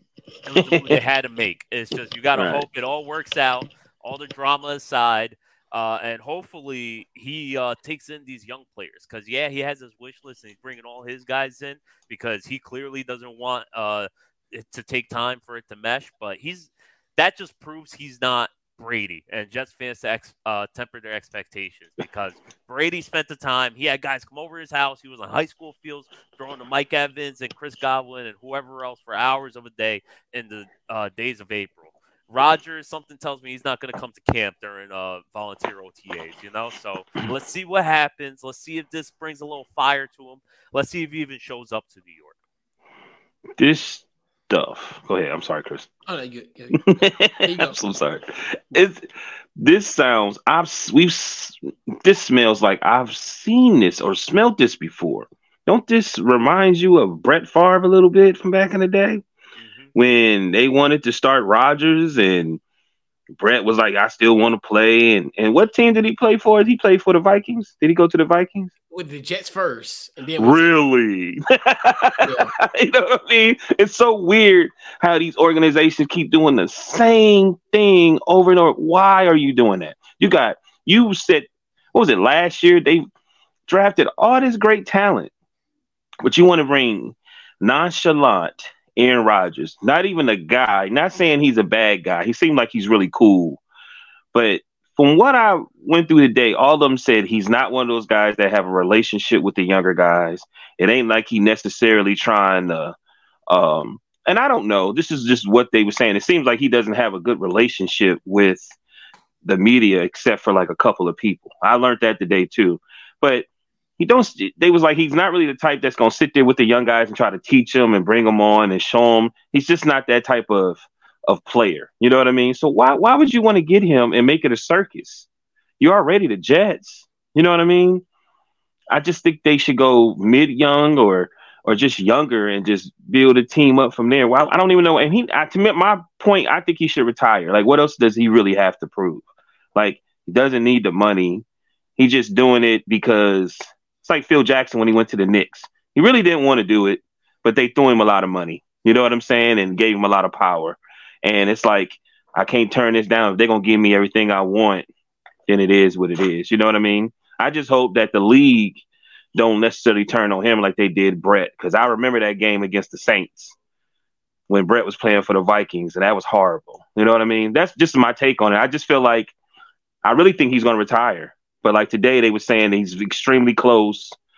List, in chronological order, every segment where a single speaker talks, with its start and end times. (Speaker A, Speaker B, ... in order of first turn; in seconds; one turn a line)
Speaker A: 0.4-42.4
Speaker B: 0.6-1.0
Speaker B: 2.4-2.6
Speaker B: 43.6-45.9
Speaker C: 46.1-47.8
Speaker B: 46.9-59.2
Speaker A: 59.6-59.9
Speaker B: 59.9-62.6
Speaker B: 63.4-68.7
Speaker C: 68.9-70.7
Speaker B: 70.4-83.0
Speaker C: 72.2-72.5
Speaker B: 83.7-85.3
Speaker B: 86.2-93.6
Speaker B: 94.3-102.9
Speaker B: 103.5-108.8
Speaker B: 109.4-113.5
Speaker B: 114.0-125.3
Speaker B: 125.8-128.1
Speaker B: 128.9-141.4
Speaker B: 142.0-154.9
Speaker B: 155.5-158.8
Speaker B: 159.3-163.6
Speaker B: 164.5-169.3
Speaker B: 170.0-174.2